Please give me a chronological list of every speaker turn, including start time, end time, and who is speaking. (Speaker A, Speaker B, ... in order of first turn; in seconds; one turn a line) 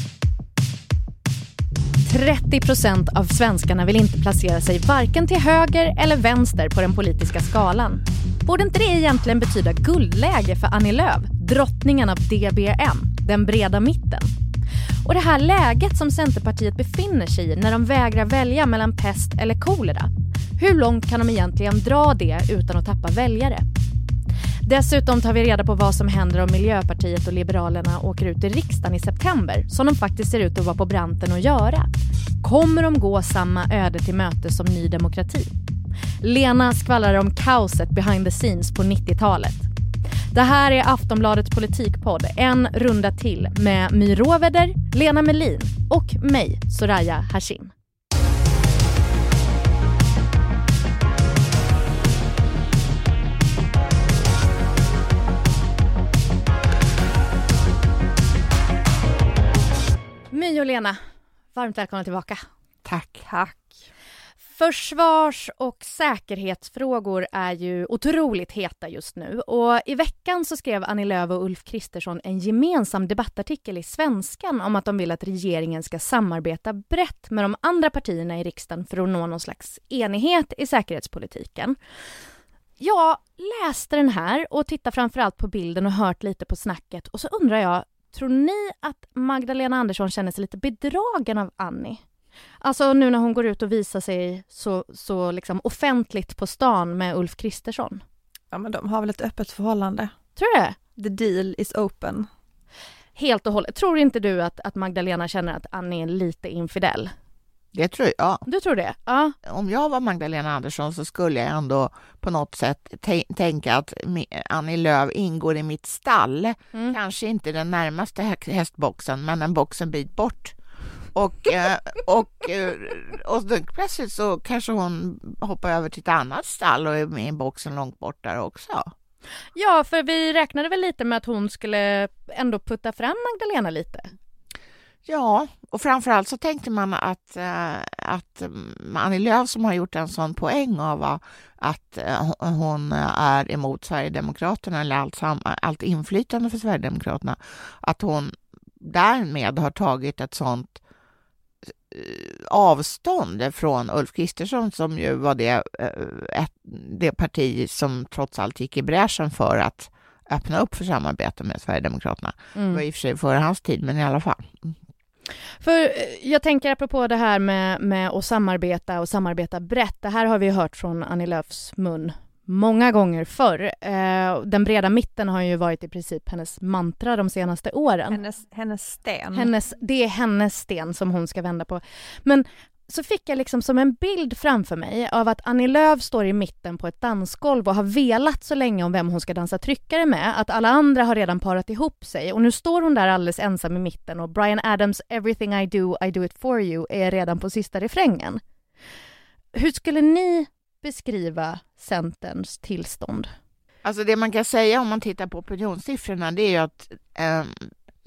Speaker A: 2.1-14.3
Speaker A: 15.0-23.6
Speaker A: 24.6-31.9
Speaker A: 32.4-35.5
Speaker A: 36.2-39.7
Speaker A: 40.3-47.7
Speaker A: 60.3-61.0
Speaker A: 61.5-62.5
Speaker B: 62.9-63.2
Speaker C: 63.3-63.7
Speaker A: 64.6-81.8
Speaker A: 82.8-92.0
Speaker A: 92.6-98.0
Speaker C: 98.5-100.1
Speaker A: 100.4-100.8
Speaker C: 101.0-102.3
Speaker A: 103.2-107.1
Speaker B: 107.7-108.4
Speaker A: 108.5-109.3
Speaker B: 109.5-120.6
Speaker B: 121.1-128.9
Speaker A: 129.6-134.1
Speaker B: 135.1-150.8
Speaker B: 151.7-164.8
Speaker A: 162.6-162.8
Speaker A: 165.6-178.2
Speaker C: 178.1-179.5
Speaker A: 179.3-198.4
Speaker A: 199.5-203.3
Speaker B: 203.8-207.7